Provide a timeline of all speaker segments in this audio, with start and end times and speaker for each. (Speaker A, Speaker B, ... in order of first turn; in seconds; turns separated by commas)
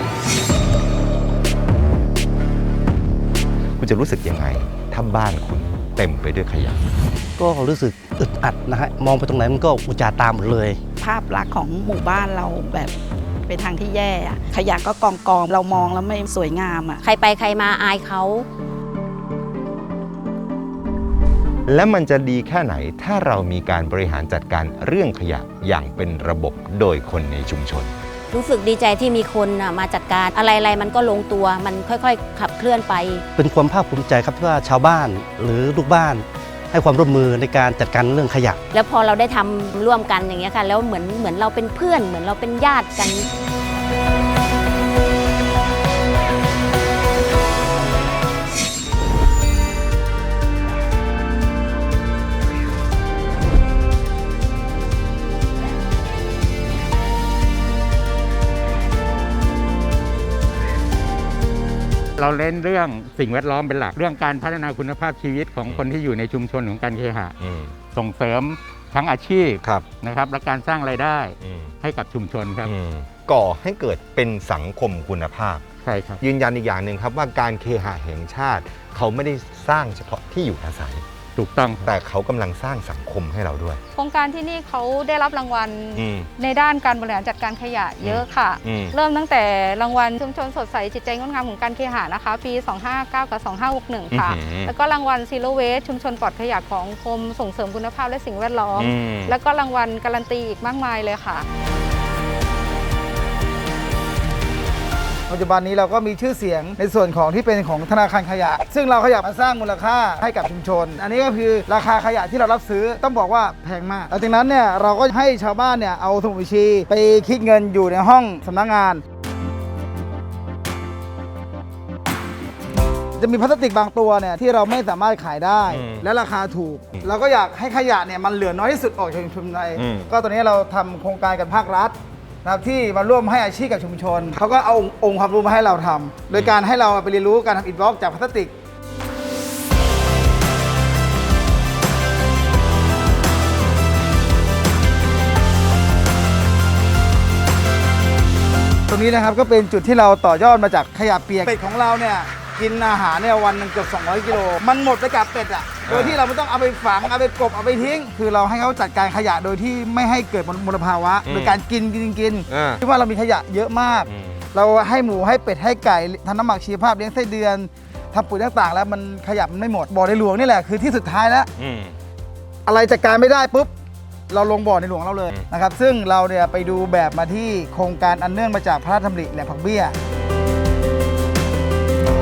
Speaker A: 3.8-6.9, Speaker B: 7.4-10.8, Speaker C: 11.0-12.9, Speaker C: 13.5-16.8, Speaker D: 17.0-18.4, Speaker A: 21.7-27.9, Speaker D: 28.3-33.2, Speaker B: 33.4-38.6, Speaker D: 38.7-43.2, Speaker E: 62.2-67.3, Speaker A: 67.4-67.8, Speaker E: 67.9-72.7, Speaker A: 69.6-69.9, Speaker A: 71.4-71.8, Speaker A: 72.6-75.6, Speaker E: 75.8-76.2, Speaker A: 76.2-81.0, Speaker E: 81.3-81.9, Speaker A: 81.8-83.8, Speaker F: 83.9-101.5, Speaker A: 85.9-86.3, Speaker A: 88.0-89.0, Speaker A: 94.1-94.7, Speaker A: 98.7-99.3, Speaker G: 105.3-119.0, Speaker G: 123.2-138.5, Speaker A: 125.7-126.0, Speaker A: 129.8-130.1, Speaker G: 148.9-171.5, Speaker A: 155.8-156.2, Speaker A: 161.2-161.6, Speaker A: 162.5-162.8, Speaker A: 164.1-164.5, Speaker A: 171.6-171.9, Speaker G: 172.7-173.7, Speaker G: 174.3-179.9